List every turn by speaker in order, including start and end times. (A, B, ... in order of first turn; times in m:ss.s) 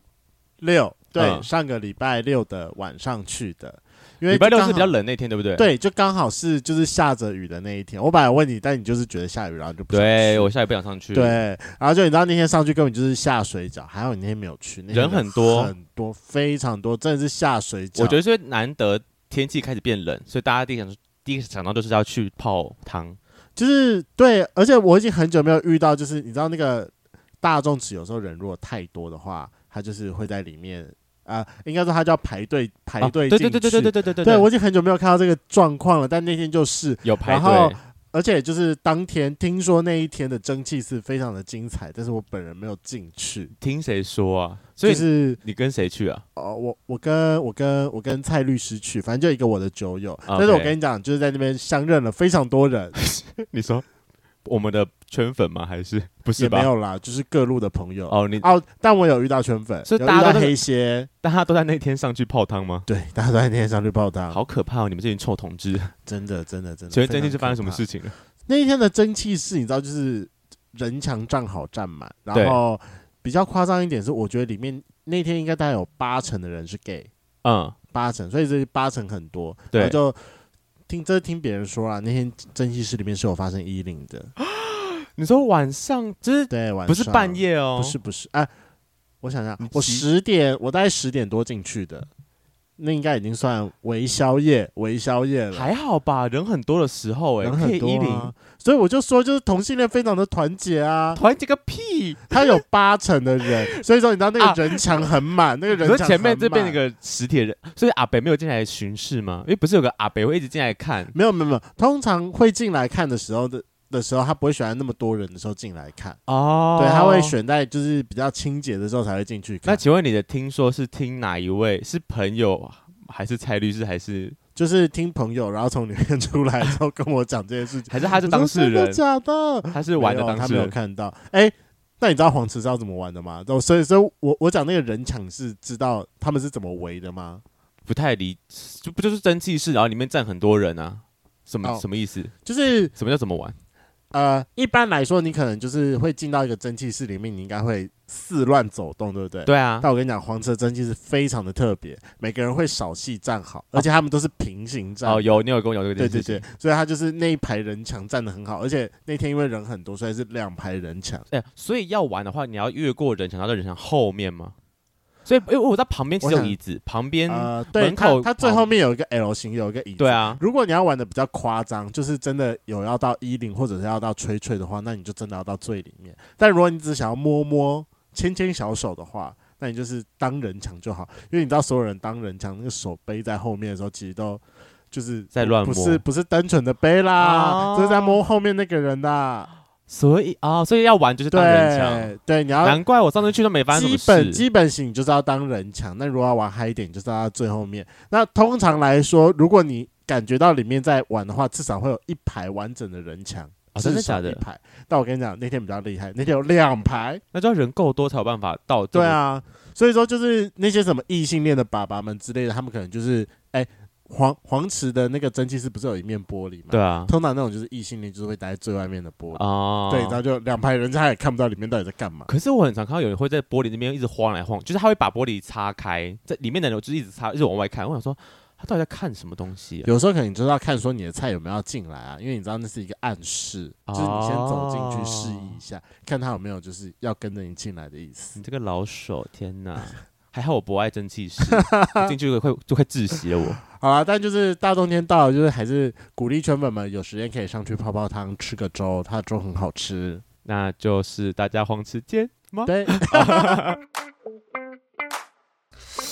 0:00.6-0:04.9 A
0:01.2-0:01.5 B
0:04.3-0:05.7 B
0:05.6-0:10.5 A
0:09.9-0:11.4 B
0:11.1-0:18.2 A
0:14.9-0:15.7 B
0:18.0-0:23.2 B
0:23.6-0:26.9 A
0:27.4-0:43.5 A
0:33.0-0:34.5 B
0:37.0-0:37.8 B
0:43.6-0:46.2 B
0:44.8-0:45.4 A
0:46.4-0:53.0 A
0:50.3-0:50.7 B
0:53.0-0:53.8 B
0:54.4-0:56.7 B
0:56.4-1:01.1 A
0:58.1-0:58.5 B
0:59.9-1:00.6 B
1:01.2-1:02.9 B
1:02.9-1:04.4 A
1:04.3-1:05.9 B
1:06.1-1:07.8 A
1:06.9-1:08.2 B
1:08.5-1:17.1 A
1:12.3-1:12.6 B
1:17.4-1:17.8 B
1:17.9-1:20.2 A
1:19.7-1:20.0 B
1:20.9-1:24.3 A
1:24.4-1:28.0 B
1:26.5-1:28.5 A
1:29.2-1:32.1 A
1:29.6-1:30.0 B
1:32.8-1:35.7 A
1:35.5-1:38.3 B
1:37.4-1:41.2 A
1:41.2-1:42.6 B
1:42.3-1:46.8 A
1:44.4-1:45.1 B
1:45.7-1:51.1 B
1:51.1-1:56.2 A
1:56.3-1:57.4 B
1:56.8-1:59.8 A
1:59.6-2:04.4 B
2:04.6-2:17.4 A
2:07.9-2:09.0 B
2:09.7-2:10.7 B
2:17.9-2:22.3 B
2:22.4-2:22.9 A
2:23.0-2:23.6 B
2:24.1-2:35.4 A
2:29.5-2:29.9 B
2:35.0-2:36.4 B
2:36.0-2:41.2 A
2:41.3-2:44.5 B
2:45.3-2:48.7 B
2:46.2-2:46.6 A
2:47.3-3:09.5 A
2:50.0-2:50.4 B
3:05.3-3:06.0 B
3:07.2-3:08.2 B
3:09.9-3:14.4 B
3:11.3-3:12.8 A
3:13.7-3:27.2 A
3:23.7-3:24.4 B
3:27.3-3:29.2 B
3:28.9-3:42.3 A
3:36.7-3:37.1 B
3:39.4-3:40.2 B
3:42.3-3:49.9 B
3:49.8-3:58.4 A
3:53.9-3:55.6 B
3:58.4-4:03.6 B
4:01.5-4:02.2 A
4:03.8-4:10.2 A
4:10.4-4:13.8 B
4:12.7-4:13.6 A